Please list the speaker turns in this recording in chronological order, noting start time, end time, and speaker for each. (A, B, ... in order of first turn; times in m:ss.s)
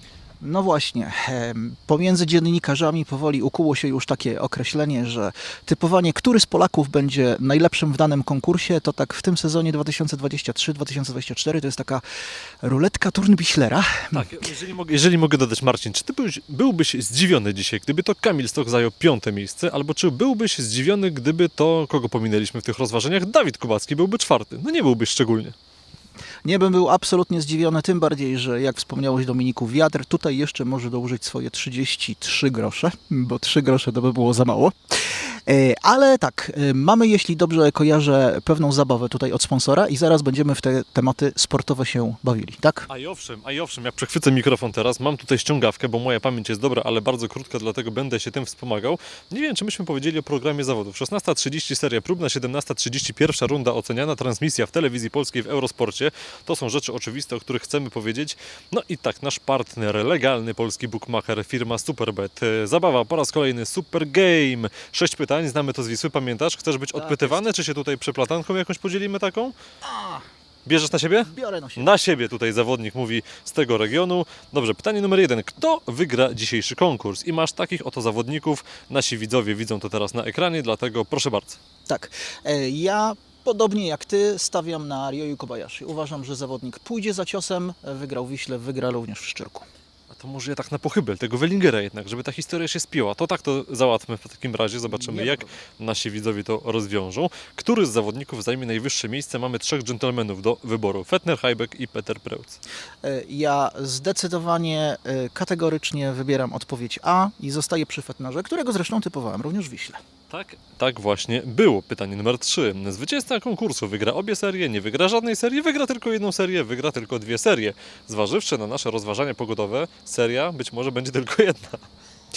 0:00.4-0:12.0 A
0:12.6-0:14.3 A
0:14.1-0:25.5 B
0:26.4-0:34.7 A
0:35.5-0:42.9 A
0:42.9-1:09.5 B
1:06.9-1:07.4 A
1:09.8-1:10.2 A
1:10.6-1:21.6 B
1:11.2-1:12.0 A
1:21.8-1:29.6 A
1:30.1-1:42.6 B
1:34.9-1:35.5 A
1:43.0-1:50.0 A
1:50.3-2:01.8 B